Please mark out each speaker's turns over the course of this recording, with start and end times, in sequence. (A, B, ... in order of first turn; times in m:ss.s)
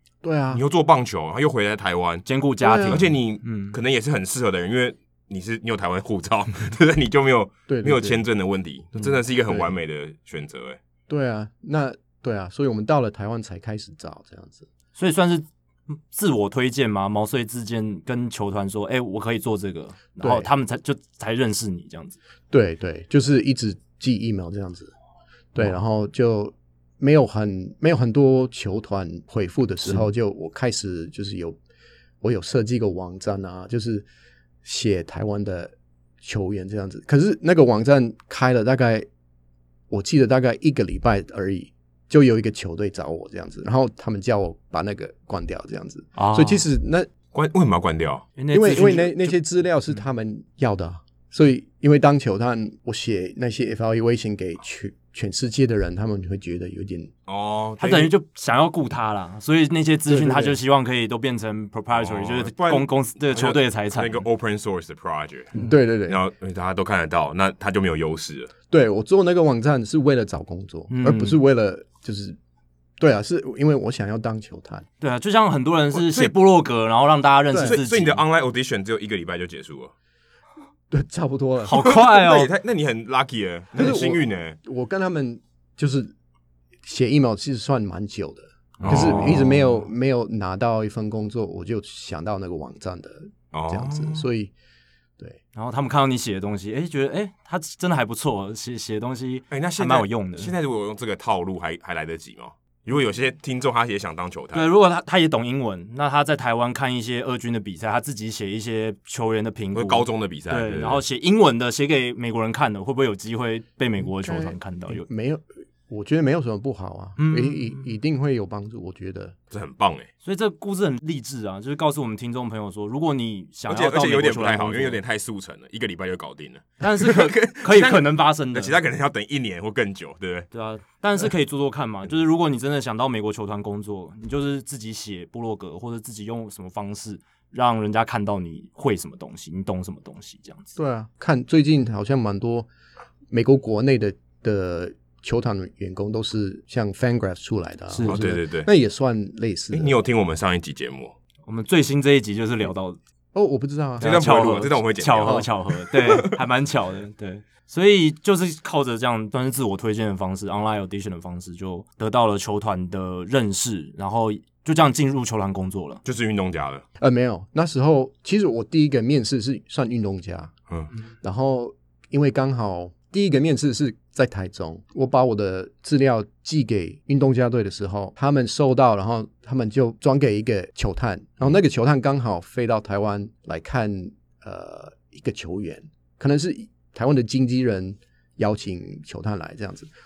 0:00.2-0:00.6 A
0:00.5-0:02.3 B
0:02.3-0:03.8 C
0:02.6-0:03.0 A
0:02.9-0:10.8 B
0:07.7-0:08.2 A
0:11.1-0:14.7 A
0:15.0-0:22.2 C
0:20.2-0:20.5 A
0:22.5-0:24.9 A
0:25.6-0:31.6 A
0:32.2-0:34.1 A
0:34.6-0:39.1 A
0:39.9-0:47.1 A
0:46.2-0:46.6 C
0:47.3-0:48.3 B
0:48.4-0:49.4 C
0:48.5-0:57.1 A
0:57.3-0:58.1 B
0:57.8-1:04.2 C
1:00.1-1:00.6 A
1:02.0-1:08.5 B
1:05.5-1:06.2 A
1:08.7-1:12.4 A
1:10.9-1:11.4 C
1:13.0-1:14.9 A
1:15.0-1:18.2 C
1:15.9-1:16.3 B
1:17.5-1:17.8 A
1:17.6-1:19.9 B
1:20.9-1:21.8 A
1:21.6-1:22.5 C
1:21.7-1:24.6 B
1:23.8-1:26.1 A
1:26.8-1:34.5 A
1:28.8-1:29.5 B
1:28.8-1:29.5 C
1:33.5-1:34.2 B
1:35.6-1:40.5 C
1:39.5-1:44.7 B
1:44.5-1:55.1 C
1:49.8-1:51.0 B
1:54.0-1:59.4 A
1:57.2-1:57.8 C
1:59.5-2:00.1 B
2:00.2-2:05.0 C
2:03.7-2:10.5 B
2:06.8-2:08.8 C
2:10.5-2:20.7 C
2:20.8-2:22.7 A
2:23.3-2:30.0 A
2:27.9-2:28.2 C
2:28.1-2:28.7 B
2:29.7-2:31.2 B
2:31.5-2:33.0 C
2:33.3-2:34.2 A
2:34.0-2:46.0 C
2:34.0-2:36.4 B
2:46.0-2:46.8 B
2:47.0-2:50.5 A
2:51.2-3:09.9 A